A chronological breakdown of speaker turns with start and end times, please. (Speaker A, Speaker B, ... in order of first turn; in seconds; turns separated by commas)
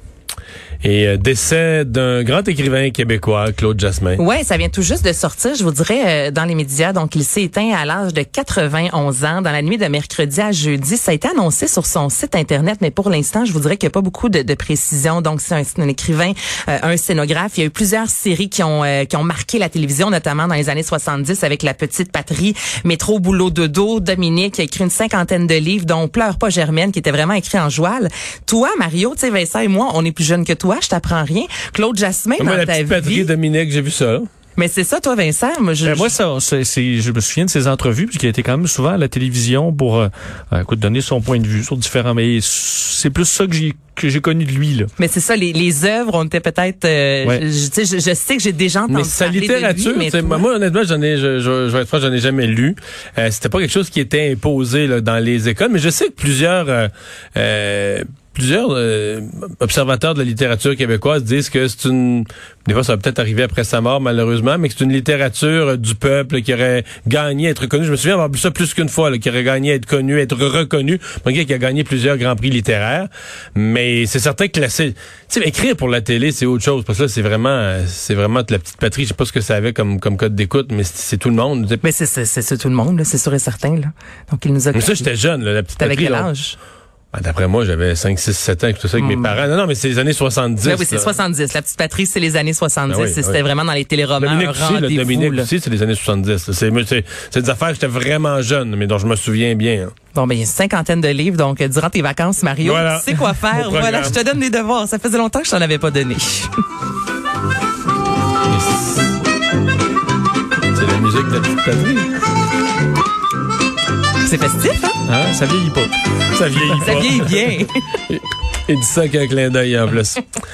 Speaker A: 0.8-4.2, Speaker B: 4.2-33.3, Speaker A: 32.4-34.3, Speaker B: 34.5-36.1, Speaker C: 35.8-44.9, Speaker B: 45.0-50.4, Speaker A: 48.9-81.8, Speaker B: 81.8-85.1, Speaker A: 84.7-86.3, Speaker B: 85.8-86.6, Speaker A: 87.1-91.1, Speaker B: 89.0-89.3, Speaker B: 90.6-95.5, Speaker A: 92.9-93.4, Speaker A: 94.2-99.9, Speaker B: 100.1-106.5, Speaker A: 102.6-104.2, Speaker A: 108.5-109.1, Speaker A: 110.7-112.1, Speaker B: 114.2-115.0, Speaker C: 115.1-115.9, Speaker A: 116.3-117.3, Speaker B: 116.8-117.7, Speaker A: 118.1-120.2